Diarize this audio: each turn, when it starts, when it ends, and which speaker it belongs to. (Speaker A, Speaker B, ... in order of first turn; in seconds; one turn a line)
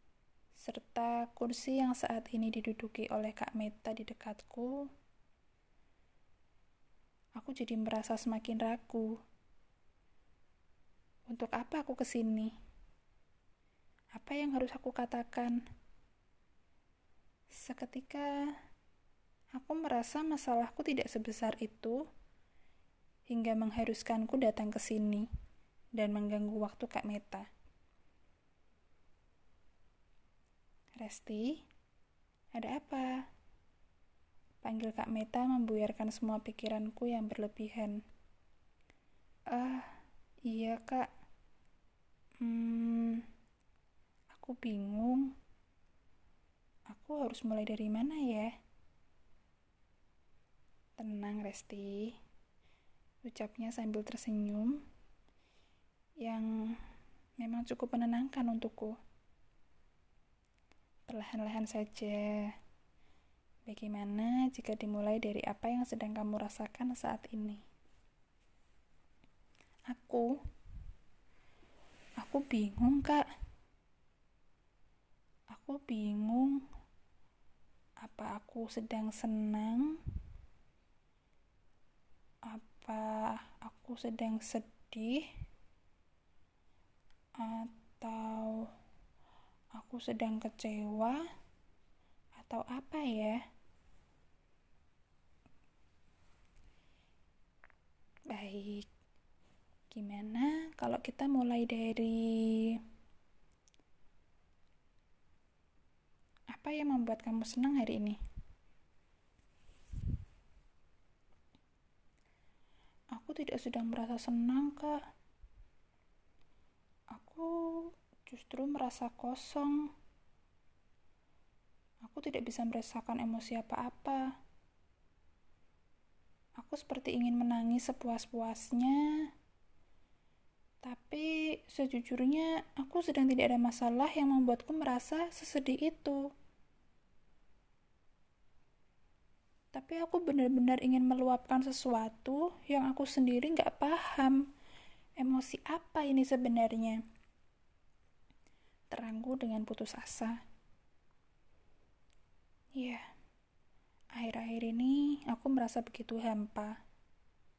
Speaker A: 0.6-4.9
Speaker A: 7.4-9.2
Speaker A: 11.3-12.5
Speaker A: 14.2-15.6
Speaker A: 17.6-18.4
Speaker A: 19.6-22.0
Speaker A: 23.3-25.3
Speaker A: 26.0-27.5
Speaker A: 31.0-31.6
Speaker A: 32.5-33.2
Speaker A: 34.6-38.0
Speaker A: 39.5-40.0
Speaker A: 40.5-41.1
Speaker A: 42.4-43.2
Speaker A: 44.3-45.3
Speaker A: 46.9-48.5
Speaker A: 51.0-52.2
Speaker A: 53.2-54.8
Speaker A: 56.2-56.8
Speaker A: 57.4-59.0
Speaker A: 61.1-62.5
Speaker A: 63.7-67.6
Speaker A: 69.9-70.4
Speaker A: 72.2-73.2
Speaker A: 75.5-76.6
Speaker A: 78.0-80.0
Speaker A: 82.5-85.3
Speaker A: 87.4-88.7
Speaker A: 89.8-91.2
Speaker A: 92.4-93.4
Speaker A: 98.3-98.9
Speaker A: 99.9-102.8
Speaker A: 106.5-108.2
Speaker A: 113.1-115.0
Speaker A: 117.1-119.9
Speaker A: 122.0-124.3
Speaker A: 126.6-129.2
Speaker A: 130.8-136.2
Speaker A: 139.7-144.5
Speaker A: 145.2-147.0
Speaker A: 148.9-150.4
Speaker A: 152.8-153.0
Speaker A: 154.2-156.8